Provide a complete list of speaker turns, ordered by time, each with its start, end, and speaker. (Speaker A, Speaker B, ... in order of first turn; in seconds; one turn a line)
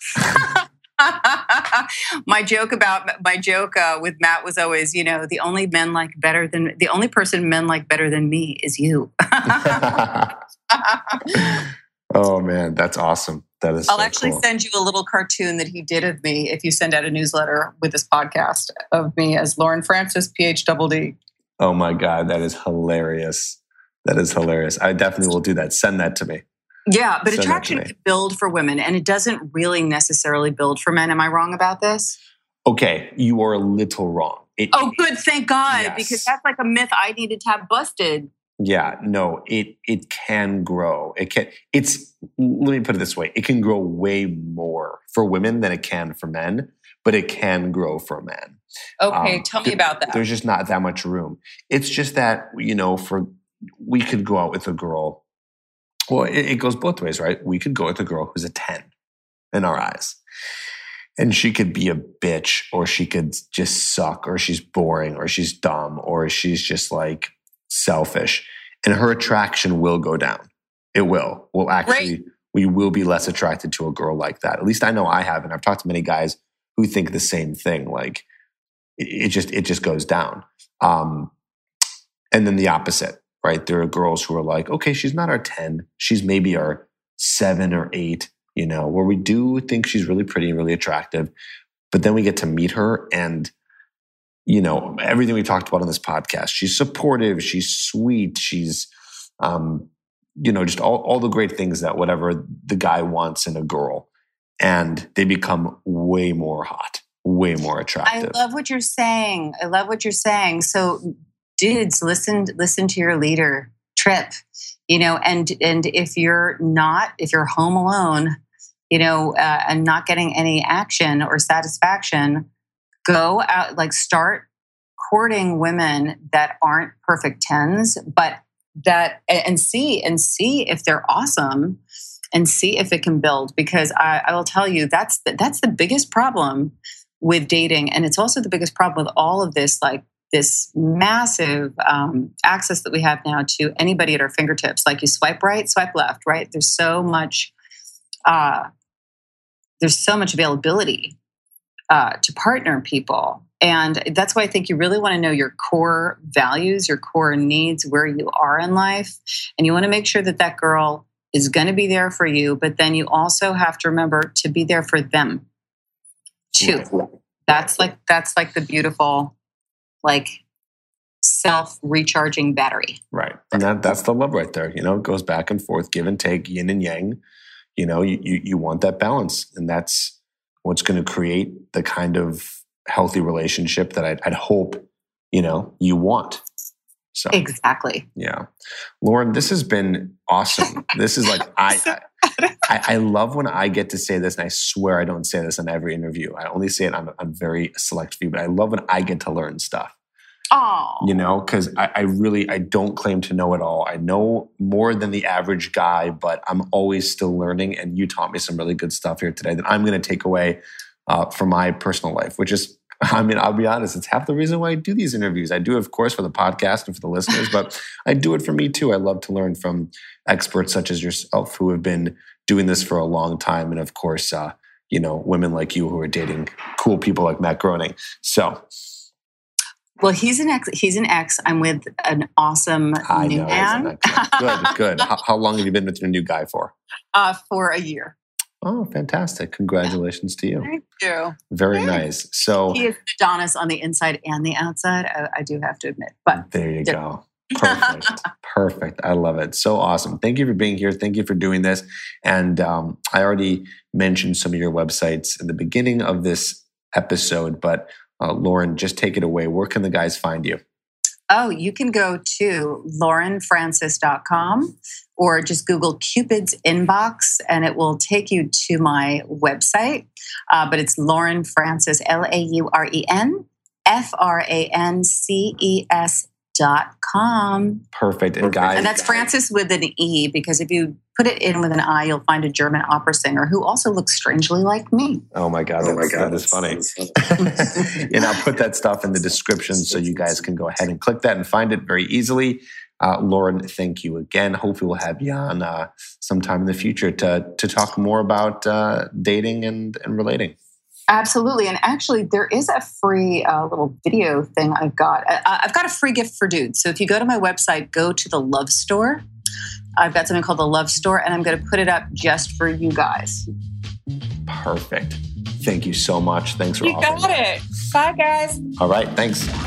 Speaker A: 0.2-0.5
Speaker B: 0.2-10.0
Speaker A: 9.5-10.3
Speaker B: 10.7-11.5
Speaker A: 11.3-14.4
Speaker B: 13.9-21.2
Speaker A: 21.6-26.4
Speaker B: 26.9-32.2
Speaker A: 27.3-27.9
Speaker A: 32.6-35.0
Speaker B: 34.7-38.3
Speaker A: 35.7-36.3
Speaker A: 38.6-55.2
Speaker B: 49.0-50.2
Speaker A: 56.1-58.9
Speaker A: 59.5-60.2
Speaker A: 61.2-78.2
Speaker B: 71.9-72.1
Speaker A: 79.0-81.3
Speaker A: 82.3-91.3
Speaker A: 91.9-93.5
Speaker A: 94.5-98.9
Speaker A: 99.4-104.1
Speaker A: 104.6-108.4
Speaker B: 108.0-114.3
Speaker B: 114.9-118.4
Speaker B: 118.9-122.5
Speaker B: 123.1-124.5
Speaker B: 125.0-131.8
Speaker B: 132.3-147.5
Speaker B: 148.3-148.7
Speaker B: 149.8-151.2
Speaker B: 151.9-165.4
Speaker B: 166.6-169.3
Speaker A: 166.6-166.9
Speaker B: 170.0-170.4
Speaker B: 171.2-173.0
Speaker A: 173.1-177.2
Speaker A: 177.8-186.4
Speaker A: 187.1-187.4
Speaker B: 187.3-188.1
Speaker A: 188.2-188.5
Speaker A: 189.0-192.0
Speaker B: 191.9-192.6
Speaker A: 192.6-199.9
Speaker B: 200.5-201.1
Speaker A: 201.0-228.7
Speaker B: 230.0-235.1
Speaker A: 233.1-236.7
Speaker B: 237.1-238.2
Speaker A: 238.6-240.7
Speaker B: 240.6-242.0
Speaker A: 241.5-242.8
Speaker B: 242.7-247.0
Speaker A: 246.3-260.6
Speaker B: 247.6-248.2
Speaker B: 261.3-277.8
Speaker A: 277.9-278.9
Speaker B: 278.8-285.2
Speaker A: 285.3-300.6
Speaker B: 301.1-309.2
Speaker B: 310.0-313.5
Speaker A: 314.5-317.4
Speaker B: 316.8-318.6
Speaker A: 318.8-319.5